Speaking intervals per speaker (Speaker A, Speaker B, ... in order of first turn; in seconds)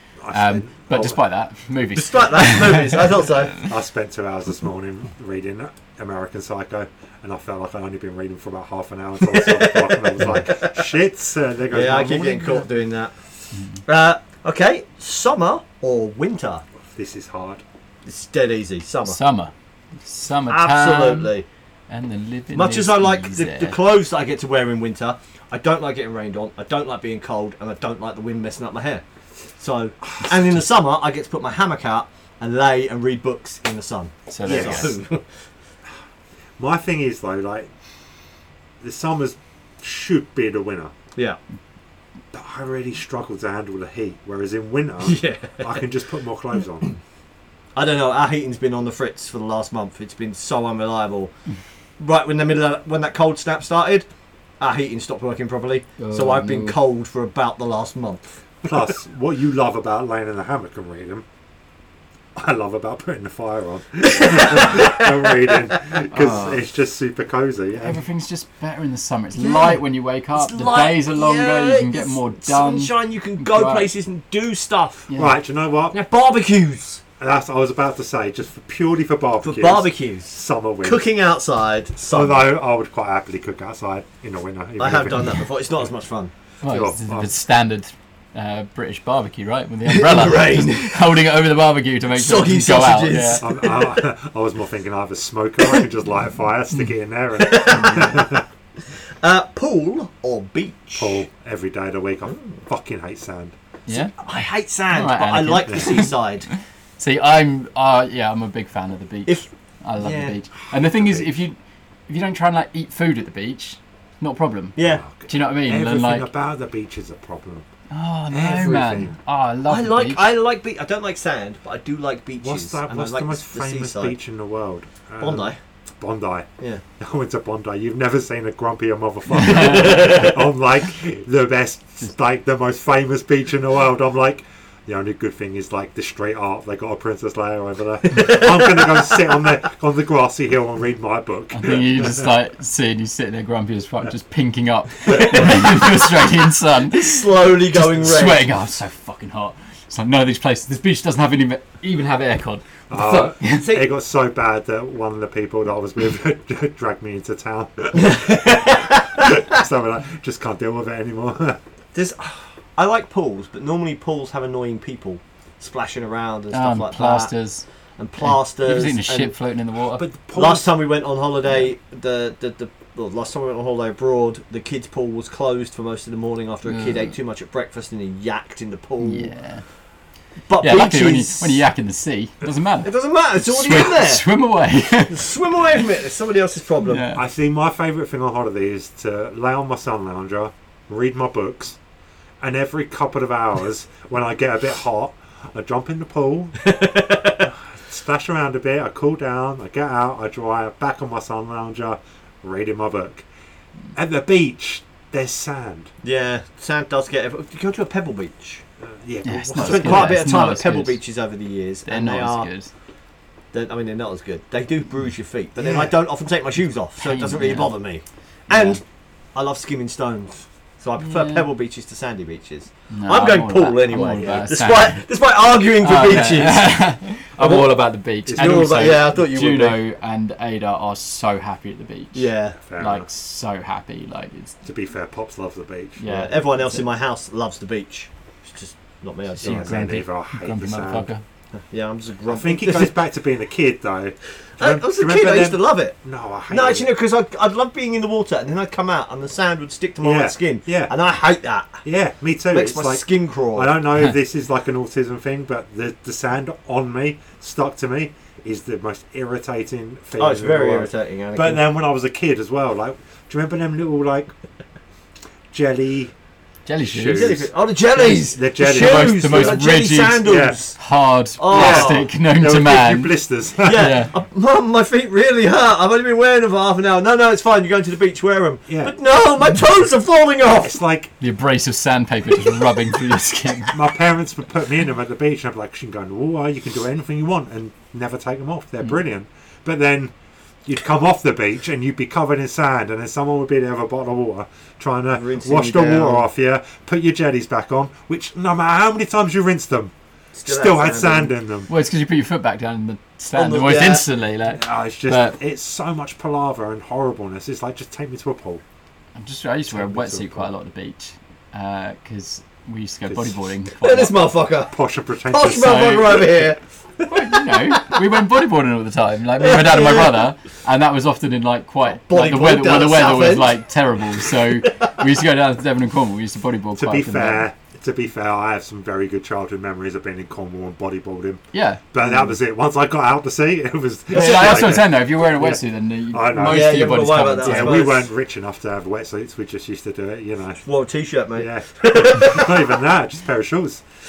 Speaker A: 0.2-1.1, 3.5-12.7, 16.9-17.6, 30.2-30.4, 34.4-35.0, 36.6-37.7, 38.8-40.9, 42.3-46.9, 58.6-61.2, 62.3-68.0, 75.2-76.0, 77.2-81.0, 82.0-85.5, 86.6-87.3, 93.4-98.4, 101.0-103.5, 105.7-106.0, 110.7-111.3, 114.8-117.7, 118.3-119.2, 122.4-142.2, 152.9-161.6, 169.9-170.7, 187.1-191.8, 192.4-196.6, 197.4-203.2, 203.9-205.9, 208.8-210.4, 215.6-215.9, 228.2-229.0, 232.7-233.1, 234.6-236.0, 239.4-241.1, 242.3-246.9, 250.0-250.9, 251.8-264.3, 265.5-266.1, 266.8-267.5, 268.0-269.6, 270.2-270.6, 271.5-273.9, 278.7-278.9, 280.6-281.1, 283.7-290.1, 290.6-299.9, 300.4-301.7, 304.5-308.6, 309.7-310.5, 313.1-313.4, 314.7-316.2, 326.7-340.6, 341.4-343.8
Speaker B: 0.3-3.2, 19.0-19.5, 20.0-21.3, 21.9-23.8, 34.3-35.0, 56.0-56.8, 66.1-66.6, 67.8-73.9, 75.1-75.4, 86.6-93.5, 103.9-104.3, 104.9-111.5, 112.1-116.2, 117.9-120.2, 129.4-130.2, 141.5-153.8, 166.5-167.6, 168.2-170.1, 176.7-177.1, 179.0-179.6, 180.6-185.3, 186.8-187.2, 209.2-211.0, 211.9-212.7, 217.0-217.8, 218.5-218.8, 221.0-221.5, 222.9-225.1, 225.8-234.5, 236.0-236.8, 239.4-241.2, 266.6-273.1, 273.7-274.1, 281.2-283.8, 301.7-305.4, 309.1-314.2, 315.7-316.2, 317.1-327.4, 331.5-331.8, 334.1-337.9
Speaker C: 1.9-3.6, 9.2-10.8, 11.7-13.1, 13.8-16.6, 18.1-19.2, 20.5-21.4, 22.5-29.0, 29.6-35.2, 45.0-45.8, 47.8-51.3, 52.0-54.1, 54.6-58.4, 64.2-65.0, 69.4-69.8, 70.3-75.1, 75.9-77.0, 79.4-82.5, 84.8-86.3, 89.8-91.0, 92.1-94.0, 97.4-98.4, 99.2-101.2, 104.2-106.5, 110.0-110.3, 114.8-115.0, 119.7-124.1, 125.2-125.6, 129.4-130.3, 138.1-138.4, 145.0-146.2, 146.9-148.5, 153.6-153.8, 157.9-159.4, 161.9-167.3, 168.0-169.3, 170.3-179.3, 180.5-181.6, 182.8-184.2, 185.1-187.1, 196.6-197.5, 206.0-208.6, 209.6-212.5, 213.5-218.8, 219.3-227.8, 228.3-229.8, 232.1-232.6, 236.1-239.8, 241.7-243.0, 244.6-245.9, 246.5-251.8, 252.5-253.8, 260.2-261.6, 267.1-270.8, 271.4-272.1, 273.6-280.8, 295.1-296.3, 300.3-301.3, 303.3-304.1, 313.8-314.7, 315.3-318.0, 319.4-320.3, 322.1-323.6, 324.6-325.0, 334.1-334.8, 336.4-338.1, 340.6-342.8